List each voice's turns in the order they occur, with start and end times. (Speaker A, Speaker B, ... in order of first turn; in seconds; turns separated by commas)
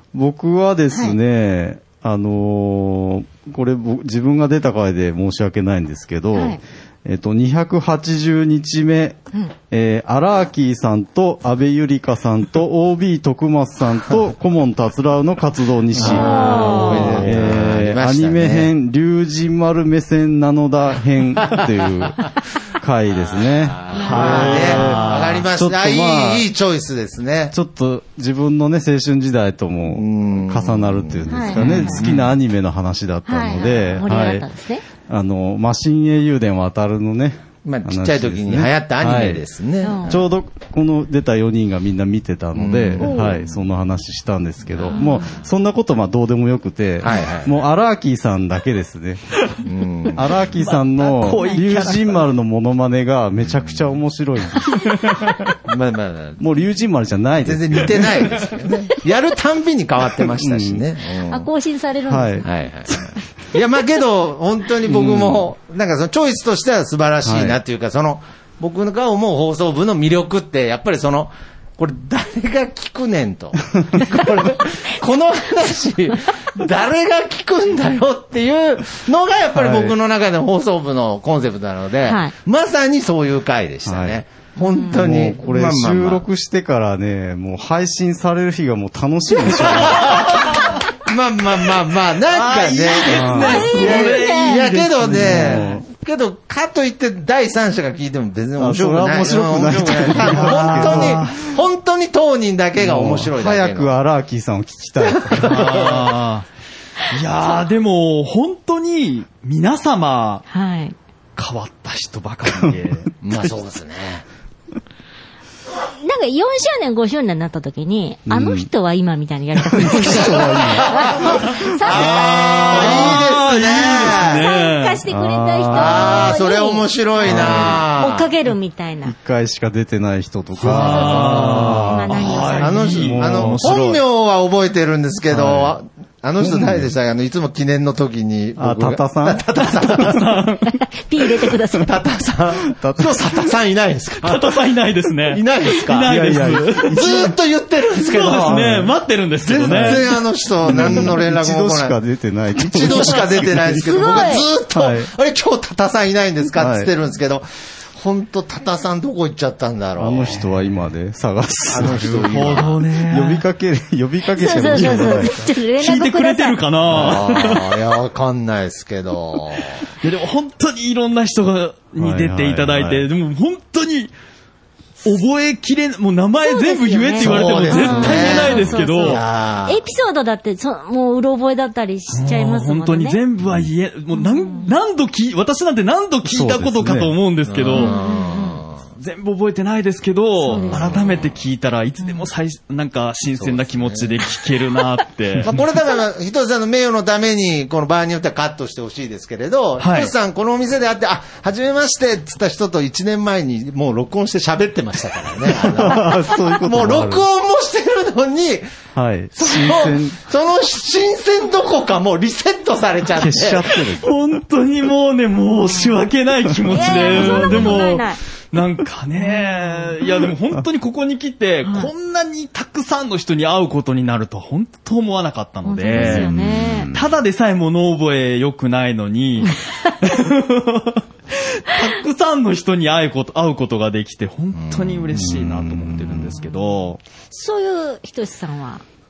Speaker A: 0.1-9.2, Speaker B: 6.3-6.6, Speaker A: 9.7-22.2, Speaker C: 15.9-18.7, Speaker B: 16.0-17.3, Speaker D: 16.8-17.1, Speaker A: 22.8-26.5, Speaker C: 23.1-27.5, Speaker B: 23.9-24.7, Speaker D: 23.9-25.5, Speaker A: 27.5-34.5, Speaker C: 29.9-32.1, Speaker B: 31.3-32.0, Speaker D: 31.6-32.3, Speaker B: 33.2-34.8, Speaker A: 35.1-39.4, Speaker C: 37.6-40.3, Speaker B: 39.8-40.2, Speaker A: 40.0-49.4, Speaker C: 42.5-43.6, Speaker B: 43.0-43.3, Speaker C: 44.7-45.0, Speaker B: 44.9-45.3, Speaker C: 47.0-47.5, Speaker C: 49.6-50.5, Speaker A: 50.1-54.8, Speaker D: 50.6-52.2, Speaker B: 51.3-51.6, Speaker C: 53.5-53.8, Speaker C: 55.6-56.4, Speaker A: 56.4-58.4, Speaker C: 57.4-61.5, Speaker A: 60.4-60.8, Speaker B: 61.3-62.5, Speaker A: 62.1-63.0, Speaker C: 62.4-86.2, Speaker A: 64.8-65.5, Speaker A: 67.2-67.6, Speaker A: 79.5-80.0, Speaker B: 82.0-82.3, Speaker A: 83.8-84.2, Speaker B: 84.6-85.0, Speaker A: 84.8-90.4, Speaker C: 89.5-103.9, Speaker D: 92.3-95.6, Speaker A: 93.1-93.7, Speaker B: 93.3-94.6, Speaker A: 95.0-95.8, Speaker A: 98.6-101.3, Speaker D: 100.2-101.4, Speaker A: 102.8-105.9, Speaker C: 105.0-106.1, Speaker D: 105.4-106.5, Speaker D: 107.1-110.4, Speaker B: 110.5-111.0, Speaker D: 111.4-113.1, Speaker C: 113.2-114.2, Speaker B: 115.9-129.1, Speaker A: 118.3-118.7, Speaker A: 119.6-121.6, Speaker C: 120.1-124.5, Speaker D: 121.9-125.0, Speaker A: 125.1-126.4, Speaker C: 125.7-128.3, Speaker A: 127.2-127.8, Speaker A: 129.0-133.8, Speaker D: 130.6-134.0, Speaker B: 130.7-133.0, Speaker C: 132.6-140.3, Speaker A: 135.3-135.8, Speaker A: 136.4-136.9, Speaker A: 138.6-139.4, Speaker D: 139.8-140.7, Speaker B: 140.6-141.9, Speaker C: 141.7-144.6, Speaker A: 142.7-143.3, Speaker D: 144.2-147.2, Speaker C: 145.3-146.1, Speaker A: 146.0-147.3, Speaker C: 146.8-148.8, Speaker D: 148.0-150.1, Speaker A: 148.4-148.9, Speaker C: 149.4-151.9, Speaker A: 149.6-150.1, Speaker A: 150.6-155.1, Speaker C: 152.6-160.4, Speaker B: 153.8-154.5, Speaker A: 156.6-156.9, Speaker A: 160.0-165.4, Speaker C: 161.7-162.8, Speaker D: 161.8-163.4, Speaker B: 164.3-166.6, Speaker D: 164.7-167.8, Speaker C: 166.9-169.8, Speaker A: 166.9-167.2, Speaker D: 170.0-174.1, Speaker A: 172.0-173.1, Speaker D: 175.0-179.2, Speaker B: 176.4-183.2, Speaker C: 177.2-179.8, Speaker D: 182.1-188.0, Speaker B: 184.1-184.7, Speaker A: 186.2-187.2, Speaker C: 187.4-188.8, Speaker B: 187.7-188.6, Speaker D: 189.0-195.6, Speaker B: 190.4-191.3, Speaker C: 190.5-191.3, Speaker B: 192.0-192.3, Speaker C: 193.4-194.2, Speaker C: 195.4-208.7, Speaker D: 199.8-200.1, Speaker A: 205.6-207.2, Speaker A: 208.9-210.2, Speaker C: 209.3-213.7, Speaker A: 213.1-214.1, Speaker D: 213.8-226.3, Speaker B: 215.6-216.0, Speaker B: 216.7-218.2, Speaker A: 217.1-217.8, Speaker B: 219.2-220.0, Speaker B: 221.6-221.9, Speaker B: 225.6-226.9, Speaker A: 225.9-227.1, Speaker D: 226.9-237.0, Speaker C: 234.5-235.0, Speaker A: 235.1-236.4, Speaker B: 236.4-236.7, Speaker B: 237.3-238.8